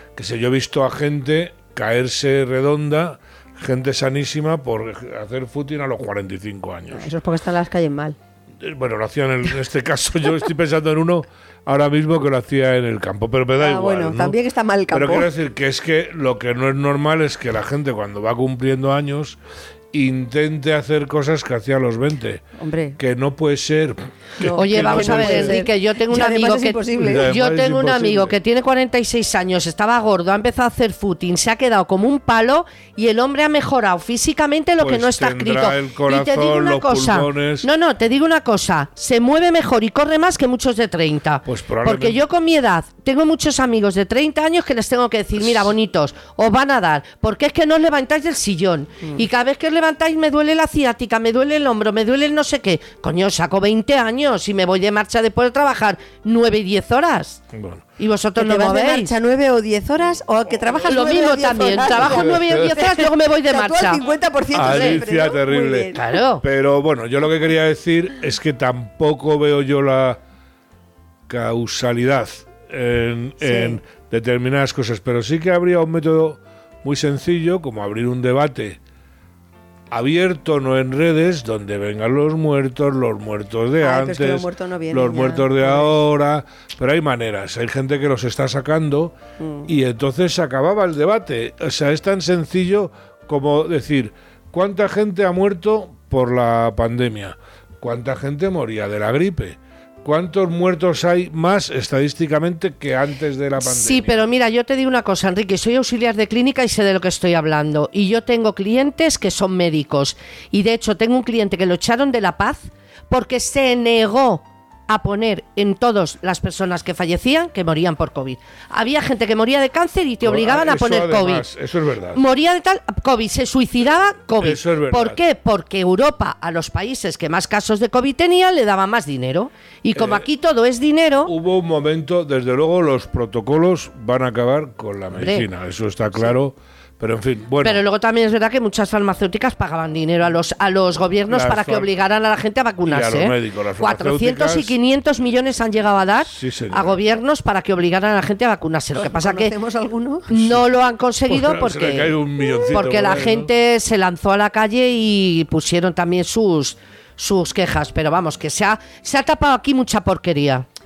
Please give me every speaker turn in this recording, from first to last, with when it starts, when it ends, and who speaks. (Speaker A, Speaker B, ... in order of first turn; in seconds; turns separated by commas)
Speaker A: 0.1-7.1, Speaker B: 6.9-8.2, Speaker A: 8.6-14.3, Speaker B: 13.6-15.3, Speaker A: 14.9-19.4, Speaker A: 19.9-22.4, Speaker B: 22.6-23.0, Speaker A: 23.0-25.6, Speaker B: 24.4-27.3, Speaker C: 24.5-57.4, Speaker A: 27.0-28.4, Speaker A: 34.8-37.7, Speaker A: 41.5-42.2, Speaker A: 45.4-45.7, Speaker A: 57.5-57.8, Speaker C: 58.0-59.1, Speaker B: 58.4-66.0, Speaker C: 60.9-64.0, Speaker A: 61.9-62.7, Speaker A: 64.5-70.2, Speaker C: 64.5-65.0, Speaker C: 65.9-66.4, Speaker A: 71.3-78.8, Speaker B: 73.4-73.8, Speaker A: 79.9-89.1, Speaker B: 83.8-86.0, Speaker B: 89.4-89.7, Speaker A: 89.7-104.2, Speaker C: 103.6-121.5, Speaker A: 120.2-122.2, Speaker C: 122.1-131.3, Speaker A: 124.4-125.2, Speaker A: 129.9-130.3, Speaker A: 131.2-137.8, Speaker C: 135.2-135.4, Speaker C: 137.6-149.5, Speaker A: 141.3-141.9, Speaker A: 142.8-144.7, Speaker A: 146.3-147.0, Speaker B: 148.9-150.3, Speaker C: 150.3-152.2, Speaker A: 151.3-153.5, Speaker C: 152.7-160.7